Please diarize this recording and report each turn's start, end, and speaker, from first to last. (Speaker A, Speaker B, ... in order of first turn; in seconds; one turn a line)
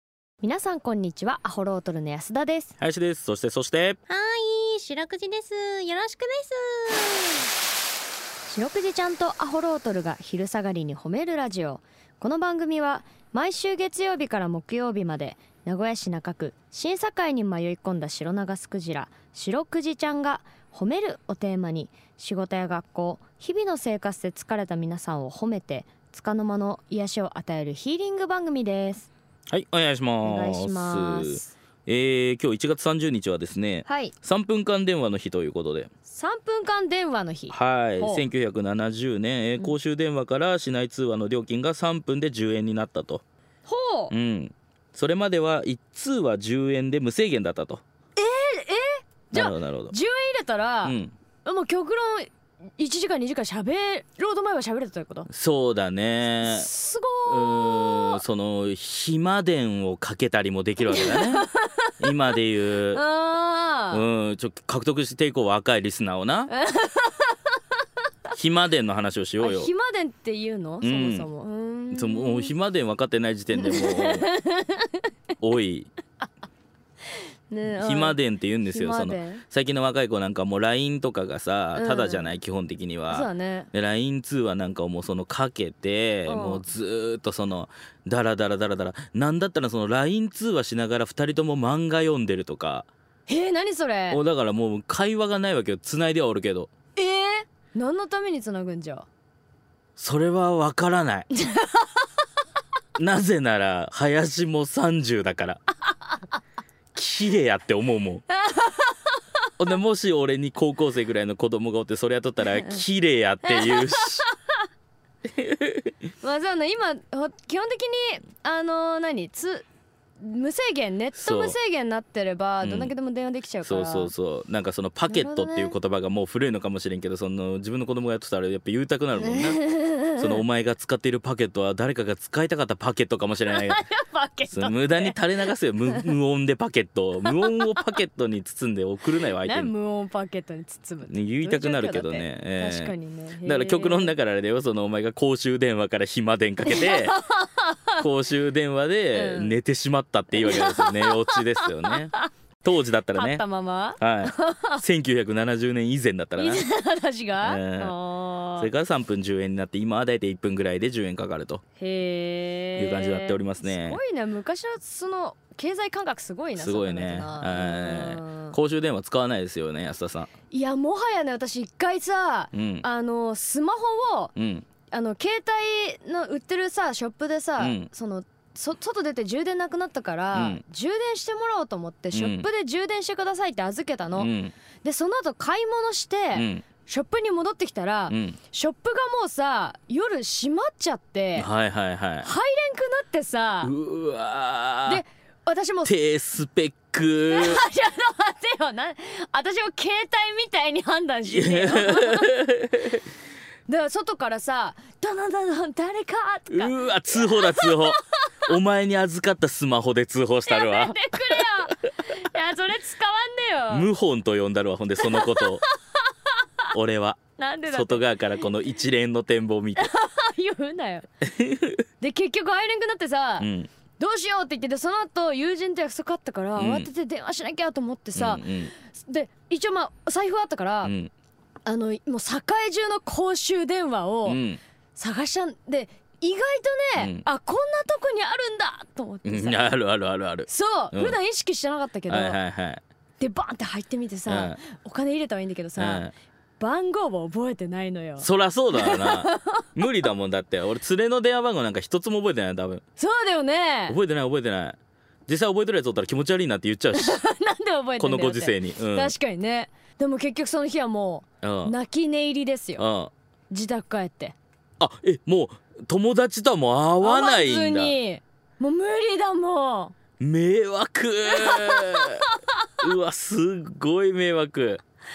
Speaker A: 0.4-2.8
Speaker B: 2.8-4.0
Speaker C: 4.1-7.5
Speaker A: 8.5-29.1
Speaker B: 29.5-35.9
Speaker A: 30.2-31.5
Speaker A: 33.9-34.1
Speaker A: 36.1-38.3
Speaker B: 37.5-43.2
Speaker A: 43.7-44.1
Speaker B: 44.1-47.8
Speaker A: 48.2-55.3
Speaker B: 49.3-50.0
Speaker B: 50.8-51.1
Speaker B: 55.3-56.7
Speaker A: 56.4-58.2
Speaker B: 57.3-61.5
Speaker A: 60.9-62.3
Speaker B: 62.0-63.0
Speaker A: 62.9-64.0
Speaker B: 63.9-66.5
Speaker A: 66.5-67.5
Speaker B: 68.3-69.7
Speaker A: 69.4-72.5
Speaker B: 70.8-71.3
Speaker B: 71.9-74.3
Speaker A: 73.5-75.0
Speaker B: 75.4-75.9
Speaker A: 77.5-79.4
Speaker B: 77.8-92.9
Speaker A: 81.8-82.3
Speaker A: 83.1-83.7
Speaker A: 86.3-86.6
Speaker A: 93.3-94.2
Speaker B: 94.1-96.7
Speaker A: 97.0-99.1
Speaker B: 100.0-101.3
Speaker A: 101.3-102.1
Speaker B: 103.0-105.6
Speaker B: 107.0-108.2
Speaker A: 108.3-109.2
Speaker B: 109.6-114.3
Speaker A: 113.5-114.4
Speaker B: 115.3-115.9
Speaker A: 116.2-119.7
Speaker A: 120.2-124.1
Speaker B: 121.2-121.6
Speaker B: 122.6-122.9
Speaker B: 123.6-133.8
Speaker A: 125.1-125.8
Speaker A: 129.2-130.3
Speaker A: 133.5-135.2
Speaker B: 134.5-139.7
Speaker A: 137.2-137.9
Speaker A: 139.4-144.2
Speaker B: 141.1-147.2
Speaker A: 146.7-148.1
Speaker B: 148.0-152.1
Speaker A: 149.1-149.6
Speaker A: 150.3-152.3
Speaker B: 152.6-153.4
Speaker A: 153.1-154.8
Speaker B: 154.0-156.7
Speaker A: 156.4-158.7
Speaker B: 157.4-158.0
Speaker B: 158.6-161.6
Speaker A: 161.8-168.6
Speaker B: 162.8-164.0
Speaker B: 166.6-170.3
Speaker A: 170.5-174.3
Speaker B: 172.5-172.9
Speaker B: 174.4-174.7
Speaker A: 174.9-191.5
Speaker B: 177.6-177.9
Speaker B: 180.3-180.6
Speaker B: 182.1-182.5
Speaker B: 184.2-184.6
Speaker B: 186.3-186.7
Speaker B: 188.1-188.4
Speaker B: 191.4-192.3
Speaker A: 192.2-193.7
Speaker B: 193.6-195.0
Speaker A: 194.9-195.9
Speaker B: 195.8-197.7
Speaker A: 197.3-202.3
Speaker B: 201.3-203.0
Speaker A: 203.7-208.4
Speaker B: 206.5-211.8
Speaker A: 210.5-213.9
Speaker B: 213.7-215.6
Speaker A: 215.0-216.7
Speaker B: 216.7-219.9
Speaker A: 217.4-218.4
Speaker A: 219.8-221.1
Speaker B: 221.2-221.8
Speaker A: 222.0-230.9
Speaker B: 223.4-223.7
Speaker B: 226.6-226.9
Speaker B: 228.2-228.7
Speaker B: 230.8-231.1
Speaker A: 231.7-234.4
Speaker B: 234.2-234.6
Speaker A: 235.0-239.7
Speaker B: 237.0-237.2
Speaker B: 239.2-241.2
Speaker A: 240.5-242.4
Speaker B: 242.1-242.8
Speaker A: 243.2-246.1
Speaker B: 244.3-244.6
Speaker B: 245.8-246.1
Speaker A: 246.6-249.6
Speaker B: 248.2-252.8
Speaker A: 253.0-254.0
Speaker B: 253.9-257.2
Speaker A: 256.9-262.9
Speaker B: 258.0-259.1
Speaker B: 261.4-261.8
Speaker B: 262.8-263.1
Speaker A: 263.5-264.4
Speaker B: 264.8-267.9
Speaker A: 267.0-269.9
Speaker B: 270.2-272.3
Speaker A: 271.3-272.7
Speaker B: 272.8-274.8